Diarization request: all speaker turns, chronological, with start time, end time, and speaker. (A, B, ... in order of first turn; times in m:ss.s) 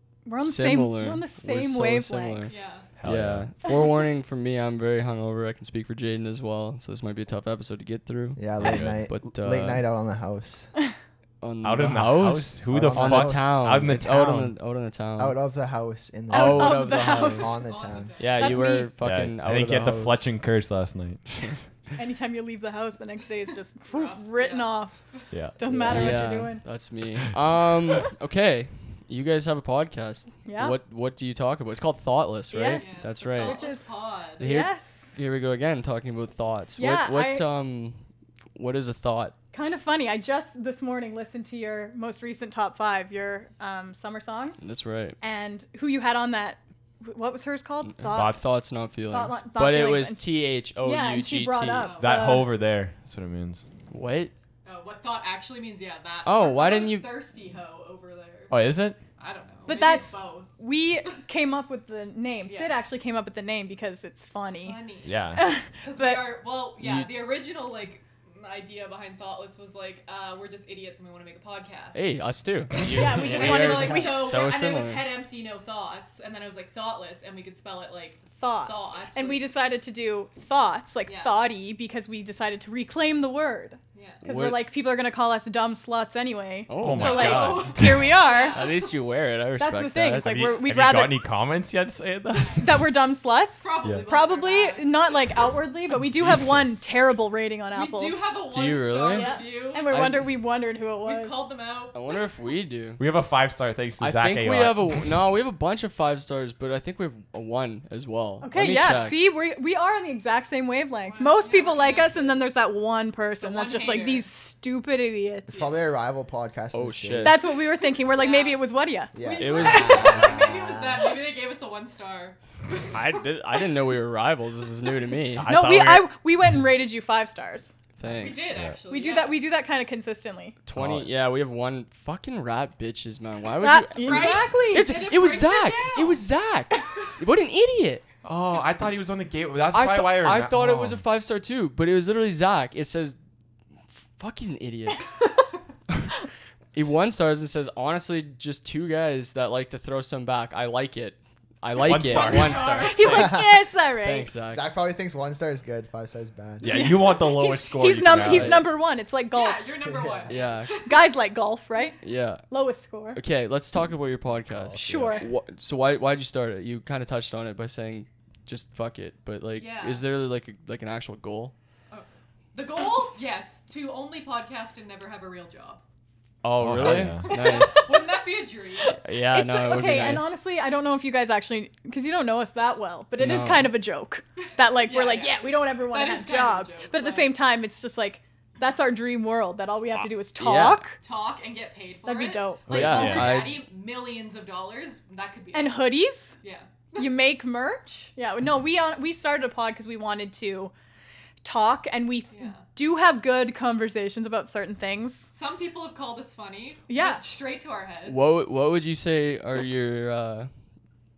0:00.2-0:02.5 A
0:00.4-0:09.9 B
0:02.5-0:02.9 C
0:03.0-0:03.5 D
0:08.4-0:10.7 E
0:08.6-0:09.0 D
0:11.4-0:15.4 B
0:11.6-0:14.5 D
0:12.7-0:13.6 E
0:15.2-0:18.2 E
0:16.3-0:17.5 B
0:16.3-0:17.6 A
0:17.1-0:18.7 C
0:18.2-0:20.3 B
0:18.3-0:19.0 A
0:19.0-0:21.5 D
0:22.0-0:25.0 A
0:23.9-0:25.2 C
0:25.3-0:25.6 D
0:25.6-0:26.6 A
0:25.6-0:26.1 E
0:25.8-0:33.6 B
0:30.4-0:30.8 A
0:32.5-0:33.9 A
0:32.7-0:34.4 C
0:34.4-0:35.1 A
0:34.4-0:38.0 B
0:36.8-0:37.4 A
0:38.6-0:39.4 B
0:39.5-0:44.6 A
0:44.6-0:45.2 B
0:45.2-0:48.5 A
0:47.9-0:51.9 B
0:48.1-0:48.5 D
0:49.1-0:52.6 A
0:51.8-0:52.3 C
0:52.0-0:53.6 D
0:53.9-0:54.3 B
0:54.6-0:58.6 C
0:56.2-0:57.2 B
0:58.5-0:59.0 D
0:59.2-1:00.5 C
0:59.7-1:04.8 A
1:02.5-1:02.8 C
1:04.6-1:05.2 C
1:05.0-1:05.5 D
1:05.3-1:06.4 A
1:05.8-1:12.0 C
1:06.8-1:07.1 B
1:11.9-1:15.1 B
1:12.7-1:19.4 C
1:12.8-1:14.3 A
1:12.9-1:13.6 D
1:18.4-1:28.6 A
1:21.0-1:21.4 C
1:23.9-1:24.2 C
1:24.2-1:24.6 B
1:26.7-1:27.7 B
1:26.8-1:28.2 D
1:26.9-1:29.0 C
1:28.5-1:30.4 B
1:29.6-1:31.3 A
1:30.2-1:32.9 D
1:32.6-1:38.2 A
1:33.6-1:34.9 C
1:35.9-1:36.8 D
1:37.7-1:39.9 C
1:38.5-1:39.4 B
1:39.1-1:41.4 A
1:39.9-1:40.3 B
1:41.0-1:42.1 C
1:41.9-1:43.0 B
1:43.0-1:45.2 D
1:44.0-1:49.2 B
1:48.4-1:55.7 A
1:51.0-1:52.4 C
1:53.4-1:54.3 C
1:55.5-1:57.5 E
1:56.7-1:57.4 B
1:57.2-1:59.2 A
1:58.1-1:58.6 C
1:59.1-2:01.1 E
1:59.2-2:03.2 C
1:59.4-2:00.4 B
2:02.9-2:05.5 B
2:05.4-2:06.1 D
2:05.4-2:07.7 A
2:08.0-2:08.5 B
2:08.0-2:09.4 C
2:08.5-2:08.8 D
2:08.9-2:10.6 A
2:10.6-2:18.0 B
2:10.8-2:11.1 D
2:13.6-2:15.0 A
2:13.9-2:16.2 C
2:16.7-2:17.0 C
2:18.2-2:21.0 D
2:19.7-2:23.2 B
2:24.2-2:25.0 B
2:26.7-2:33.1 B
2:31.8-2:33.4 D
2:32.1-2:33.2 C
2:32.6-2:34.3 A
2:33.1-2:33.4 E
2:34.0-2:34.7 B
2:34.5-2:36.7 E
2:36.6-2:38.7 D
2:36.6-2:39.9 A
2:38.1-2:38.7 B
2:39.3-2:41.1 C
2:39.9-2:40.3 E
2:40.3-2:40.7 B
2:40.8-2:43.2 A
2:42.0-2:42.4 B
2:43.1-2:51.5 B
2:44.5-2:45.1 E
2:44.8-2:45.3 A
2:44.9-2:45.3 C
2:49.6-2:50.0 C
2:51.9-2:55.8 C
2:56.4-2:57.8 B
2:56.6-2:57.4 D
2:57.2-2:59.0 C
2:57.4-2:58.0 A
2:58.8-3:11.0 A
2:59.0-3:00.3 B
3:03.2-3:03.7 B
3:04.6-3:07.4 C
3:10.4-3:10.8 B
3:11.0-3:16.6 C
3:12.0-3:13.2 A
3:12.7-3:13.4 D
3:12.7-3:13.6 B
3:15.5-3:16.4 A
3:16.9-3:20.7 A
3:21.4-3:25.3 A
3:22.3-3:22.6 C
3:25.3-3:28.3 C
3:26.9-3:27.2 A
3:28.0-3:30.5 B